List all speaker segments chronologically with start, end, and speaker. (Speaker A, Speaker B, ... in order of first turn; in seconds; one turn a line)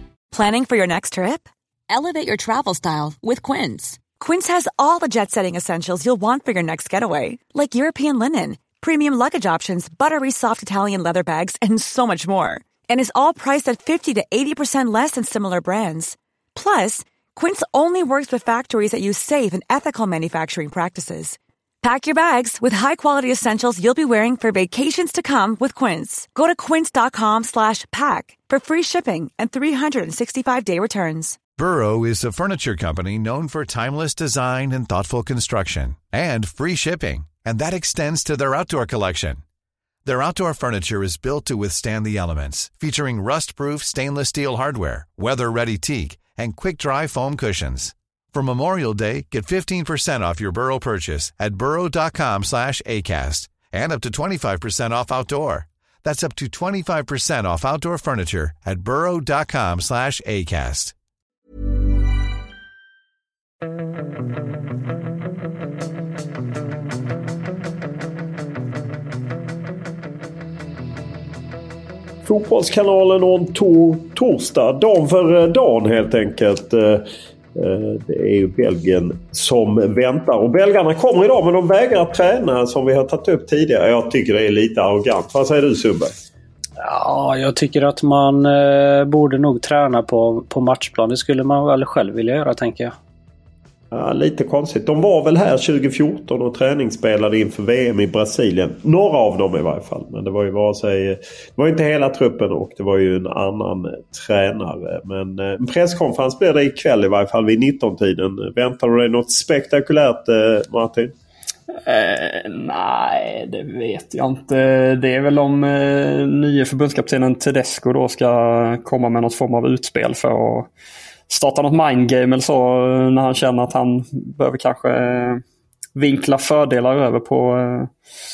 Speaker A: 0.3-31.4
Speaker B: 31.6-39.4
Speaker B: 40.0-61.0
Speaker C: 72.2-86.1
Speaker D: 86.8-93.0
Speaker C: 93.9-111.1
Speaker E: 111.7-120.7
Speaker E: 121.3-125.4
Speaker E: 126.0-127.9